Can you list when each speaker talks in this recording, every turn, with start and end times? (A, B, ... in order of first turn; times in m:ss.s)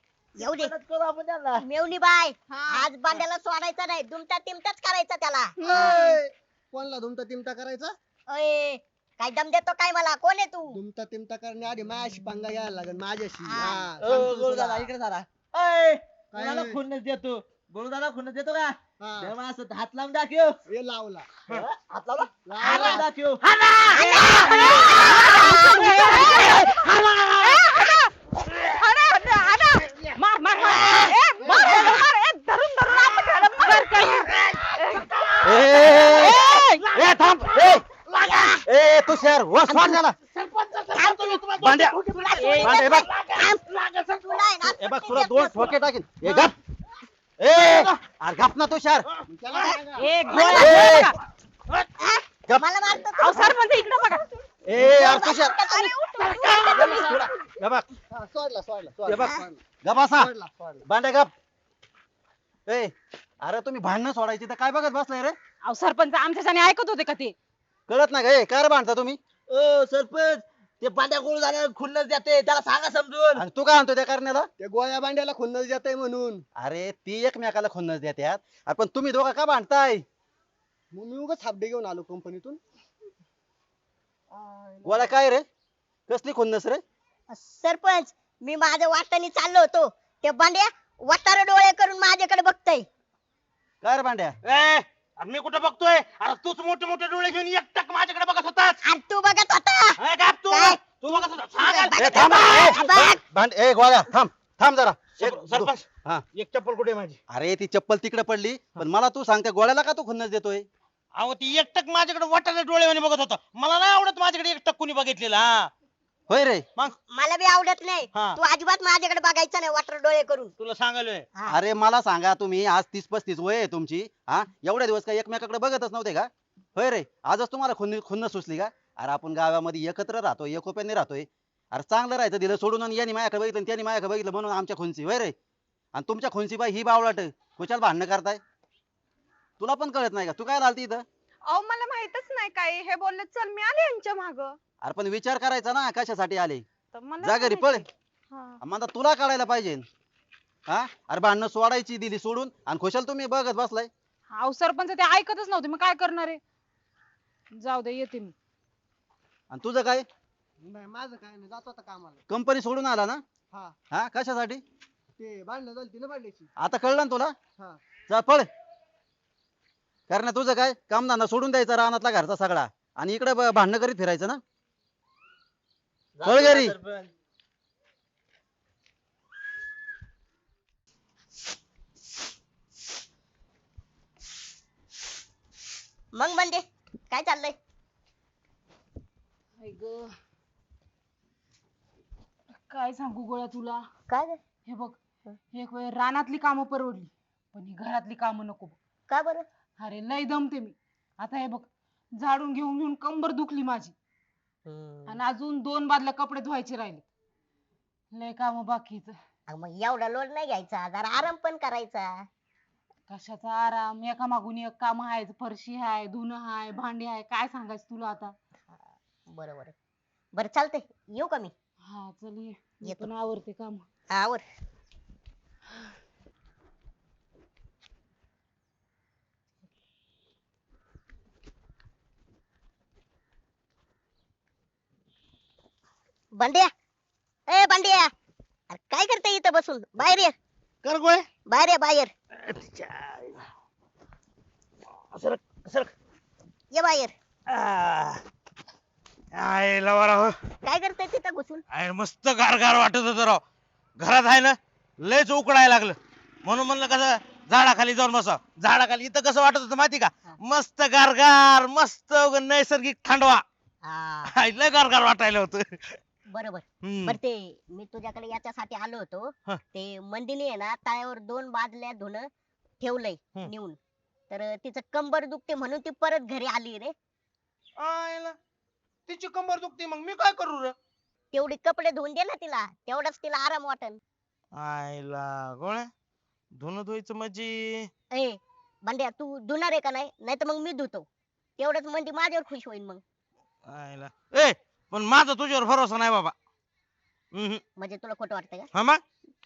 0:00.4-0:00.7 A
0:00.4-0:01.6 B
0:01.6-0:06.0 A
0:02.5-0:02.8 C
0:05.6-0:06.2 C
0:05.6-0:08.0 D
0:08.3-0:10.8 A
0:10.7-0:14.9 D
0:13.4-0:13.9 A
0:14.0-0:20.6 B
0:16.3-0:16.8 D
0:19.0-0:19.3 D
0:20.7-0:21.3 D
0:21.5-0:23.4 B
0:22.4-0:23.1 D
0:22.6-0:27.5 E
0:24.0-0:24.5 A
0:24.2-0:26.6 F
0:25.4-0:25.9 A
0:27.4-0:28.1 F
0:28.8-0:30.0 C
0:30.2-0:34.3 F
0:31.4-0:31.7 D
0:31.7-0:32.1 C
0:32.8-0:33.8 C
0:34.3-0:38.6 E
0:35.4-0:36.4 G
0:36.1-0:36.9 F
0:37.0-0:37.8 G
0:38.2-0:38.6 A
0:38.6-0:40.1 G
0:39.6-0:40.0 A
0:40.3-0:44.4 E
0:40.9-0:41.4 A
0:41.6-0:41.9 G
0:42.0-0:43.6 A
0:42.4-0:42.8 F
0:42.6-0:43.0 G
0:44.3-0:45.7 A
0:44.8-0:46.5 G
0:46.2-0:46.5 E
0:47.4-0:49.0 G
0:47.5-0:47.9 E
0:49.1-0:49.8 E
0:49.3-0:50.1 D
0:50.0-0:51.1 F
0:50.3-0:50.9 A
0:50.6-0:51.0 G
0:52.0-0:53.4 A
0:53.2-0:54.2 F
0:54.7-0:55.6 G
0:54.8-0:57.3 C
0:54.8-0:55.9 A
0:56.2-0:57.2 E
0:58.1-0:59.6 D
0:59.0-0:59.3 G
0:59.8-1:00.3 G
1:00.2-1:00.8 D
1:00.8-1:01.3 G
1:02.7-1:05.3 G
1:05.6-1:07.3 F
1:07.9-1:09.2 G
1:09.5-1:13.4 B
1:13.4-1:14.5 G
1:14.6-1:16.4 D
1:16.6-1:20.0 G
1:20.9-1:22.6 D
1:24.3-1:25.1 D
1:24.8-1:25.4 G
1:26.1-1:26.8 G
1:27.3-1:32.9 A
1:33.8-1:34.3 G
1:34.4-1:38.8 E
1:38.8-1:40.0 A
1:40.0-1:42.9 E
1:40.5-1:40.8 A
1:41.6-1:43.2 A
1:42.1-1:46.2 G
1:45.2-1:47.2 E
1:47.3-1:50.6 G
1:51.2-1:55.7 E
1:56.3-1:56.6 G
1:57.1-2:00.5 A
2:00.6-2:01.2 E
2:01.5-2:15.3 G
2:15.9-2:18.4 G
2:19.6-2:21.0 G
2:21.5-2:24.6 C
2:24.8-2:26.6 G
2:26.9-2:28.6 C
2:27.2-2:27.8 G
2:28.6-2:29.8 G
2:30.7-2:33.9 G
2:34.3-2:36.4 F
2:37.6-2:38.3 F
2:39.5-2:40.0 G
2:40.6-2:42.2 D
2:42.3-2:43.2 G
2:43.9-2:44.6 G
2:45.2-2:46.5 D
2:46.6-2:47.3 G
2:48.1-2:48.5 G
2:50.1-2:54.4 G
2:56.2-2:57.1 B
2:56.2-2:56.7 G
3:06.1-3:07.6 A
3:09.6-3:10.1 F
3:12.7-3:13.8 F
3:14.1-3:14.4 A
3:14.7-3:15.0 F
3:15.5-3:18.8 F
3:19.1-3:19.4 A
3:19.8-3:21.7 F
3:22.2-3:23.9 F
3:24.6-3:25.2 A
3:25.1-3:27.0 F
3:28.1-3:29.1 F
3:29.5-3:32.2 A
3:33.1-3:38.3 F
3:39.3-3:39.7 A
3:40.3-3:41.5 A
3:41.9-3:43.8 F
3:44.1-3:44.4 A
3:56.4-3:56.7 A
3:57.5-3:58.1 A
3:58.7-4:00.3 A
4:00.8-4:01.2 E
4:01.5-4:02.1 A
4:02.4-4:03.4 E
4:05.1-4:05.9 E
4:06.7-4:07.1 A
4:07.5-4:08.2 E
4:09.3-4:10.4 E
4:10.6-4:11.6 A
4:11.7-4:13.4 E
4:14.0-4:23.4 E
4:23.8-4:24.3 A
4:24.3-4:26.0 E
4:26.3-4:32.3 A
4:26.8-4:27.2 E
4:32.8-4:33.8 A
4:34.3-4:36.9 A
4:37.8-4:38.4 E
4:39.1-4:40.7 E
4:41.3-4:44.0 A
4:44.6-4:45.9 E
4:46.6-4:47.9 E
4:48.1-4:51.0 A
4:51.6-4:53.0 A
4:53.7-4:56.3 E
4:57.3-4:57.6 E
4:57.8-4:58.7 A
4:58.7-4:59.0 E